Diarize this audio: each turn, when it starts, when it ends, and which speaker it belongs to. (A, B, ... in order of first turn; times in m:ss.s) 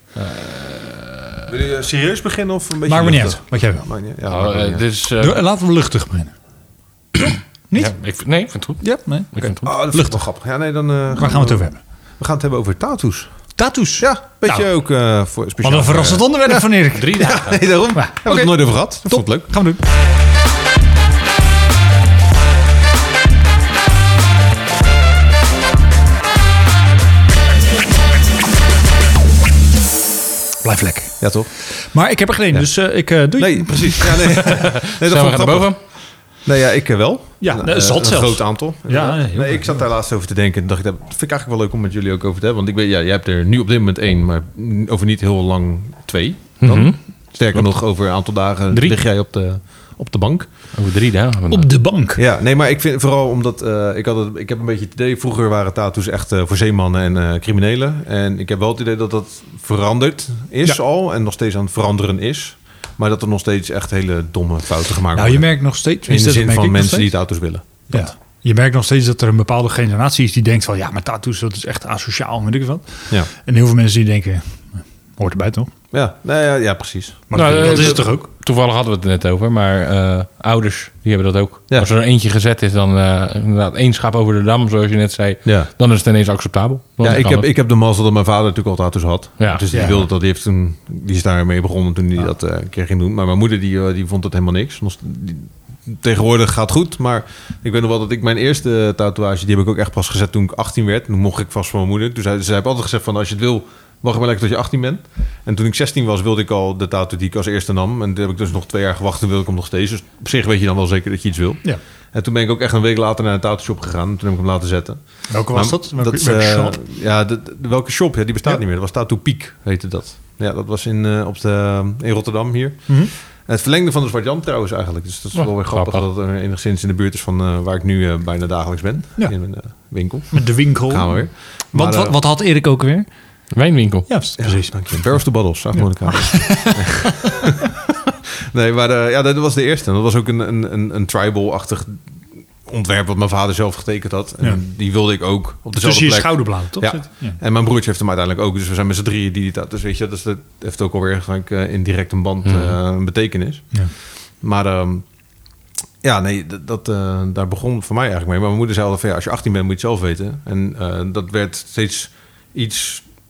0:00.2-0:01.4 A
0:01.5-0:04.8 B
0:02.8-0:03.8 C
0:04.3-0:05.4 A
0:05.2-0:06.3 C
0:07.2-0:07.9 C
0:07.7-0:09.7 A
0:08.8-0:10.2 C
0:09.6-0:13.3 B
0:11.1-0:11.8 C
0:13.6-0:14.7 C
0:14.0-0:19.5 B
0:15.6-0:17.3 C
0:16.9-0:17.6 A
0:17.9-0:19.8 C
0:30.6-0:34.4 C
0:31.2-0:31.5 B
0:33.4-0:35.7 B
0:34.3-0:35.8 A
0:36.4-0:50.5 B
0:37.4-0:39.8 C
0:46.6-0:47.0 A
0:48.7-0:49.0 A
0:50.7-0:51.7 A
0:51.5-0:52.2 C
0:52.2-1:05.5 B
1:05.1-1:07.1 C
1:06.0-1:08.0 B
1:07.9-1:15.7 C
1:15.9-1:18.0 B
1:17.3-1:18.3 C
1:17.3-1:27.5 A
1:25.4-1:25.7 B
1:27.0-2:12.2 B
1:29.4-1:29.7 A
1:29.7-1:30.1 C
1:55.3-1:56.8 C
2:05.4-2:06.0 A
2:10.3-2:13.1 C
2:13.5-2:14.1 A
2:14.1-2:15.2 C
2:14.4-2:18.0 B
2:15.8-2:17.4 C
2:18.5-2:22.0 B
2:22.6-2:33.8 B
2:25.8-2:27.4 C
2:32.5-2:32.7 A
2:34.4-2:35.0 B
2:36.0-2:43.0 B